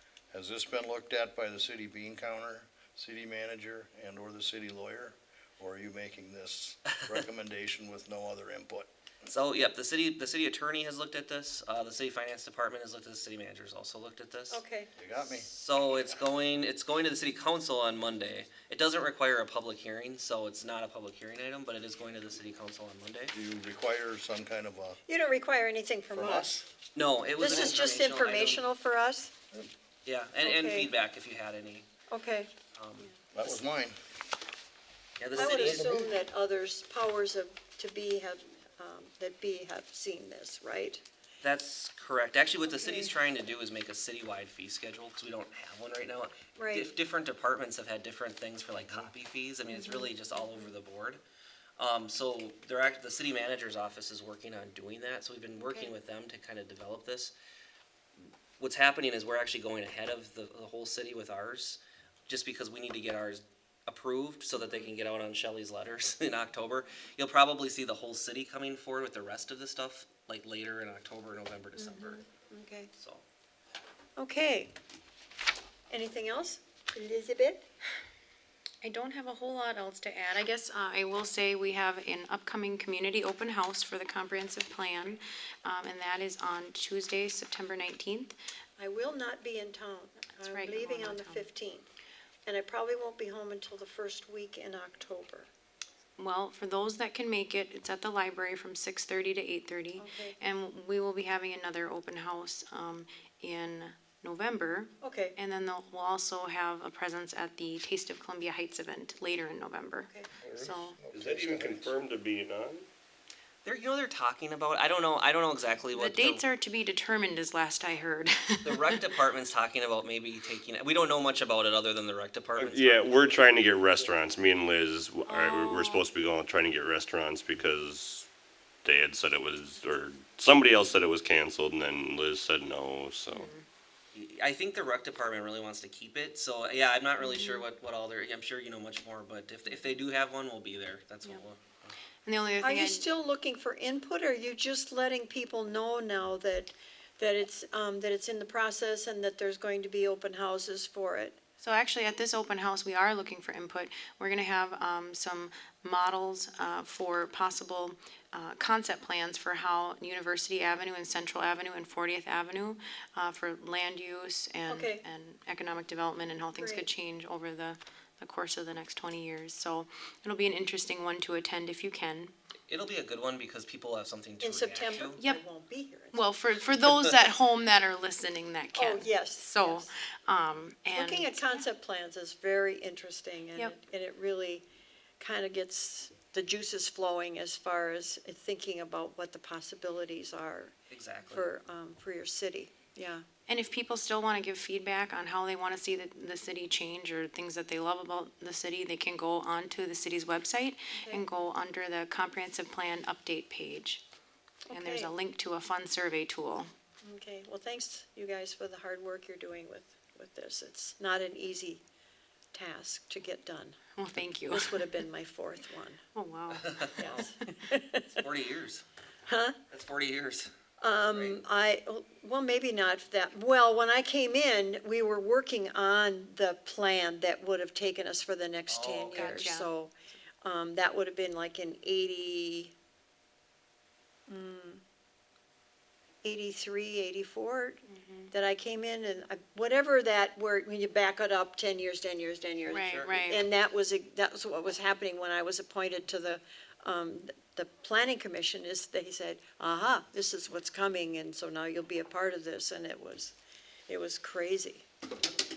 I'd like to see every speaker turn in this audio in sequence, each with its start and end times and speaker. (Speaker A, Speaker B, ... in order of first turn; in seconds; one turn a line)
Speaker A: 0.3-8.9
Speaker B: 9.2-14.6
Speaker C: 14.5-14.9
Speaker A: 14.9-15.5
Speaker B: 15.2-23.3
Speaker A: 23.3-25.0
Speaker C: 25.1-26.6
Speaker A: 26.1-26.6
Speaker B: 26.9-28.6
Speaker C: 27.4-29.3
Speaker B: 30.1-31.9
Speaker C: 30.4-30.9
Speaker C: 32.1-32.5
Speaker B: 32.7-33.5
Speaker A: 33.3-34.0
Speaker B: 35.2-36.0
Speaker C: 35.3-41.0
Speaker A: 35.4-36.0
Speaker B: 41.4-51.2
Speaker C: 42.7-43.1
Speaker C: 46.5-46.9
Speaker C: 49.7-50.4
Speaker B: 51.8-57.3
Speaker C: 55.6-55.9
Speaker B: 58.6-72.2
Speaker C: 64.5-64.9
Speaker C: 71.8-72.9
Speaker B: 72.9-73.2
Speaker C: 74.2-74.7
Speaker C: 75.9-77.7
Speaker D: 78.8-88.4
Speaker C: 88.8-91.9
Speaker D: 90.4-91.5
Speaker C: 92.5-95.5
Speaker D: 96.2-111.0
Speaker C: 100.0-100.3
Speaker C: 105.0-105.4
Speaker A: 110.4-111.9
Speaker E: 111.1-112.9
Speaker B: 113.6-116.4
Speaker D: 115.9-119.0
Speaker B: 118.6-123.3
Speaker E: 122.6-128.3
Speaker D: 125.3-126.0
Speaker E: 128.8-133.5
Speaker D: 133.3-133.6
Speaker B: 134.1-141.9
Speaker D: 137.2-137.7
Speaker D: 142.2-143.1
Speaker C: 142.6-151.4
Speaker D: 151.6-172.3
Speaker C: 164.7-165.0
Speaker C: 166.6-166.9
Speaker B: 172.7-175.2
Speaker C: 174.4-176.3
Speaker D: 175.2-175.4
Speaker D: 176.1-181.6
Speaker C: 178.7-179.9
Speaker C: 180.9-184.7
Speaker C: 185.2-190.7
Speaker B: 190.9-191.5
Speaker C: 191.3-193.2
Speaker D: 193.5-204.0
Speaker C: 200.9-201.2
Speaker C: 204.7-205.1
Speaker D: 204.7-206.7
Speaker C: 207.0-211.8
Speaker C: 212.5-213.8
Speaker D: 213.9-214.9
Speaker C: 214.5-216.0
Speaker D: 216.1-217.3
Speaker B: 216.7-217.3
Speaker C: 217.0-218.2
Speaker B: 218.1-218.8
Speaker C: 219.3-219.6
Speaker B: 219.7-220.5
Speaker C: 220.8-232.7
Speaker B: 221.1-221.4
Speaker B: 228.7-229.5
Speaker D: 229.1-229.7
Speaker C: 234.3-234.8
Speaker C: 236.2-253.3
Speaker D: 237.9-238.3
Speaker D: 242.7-243.4
Speaker B: 242.8-243.1
Speaker C: 253.9-254.8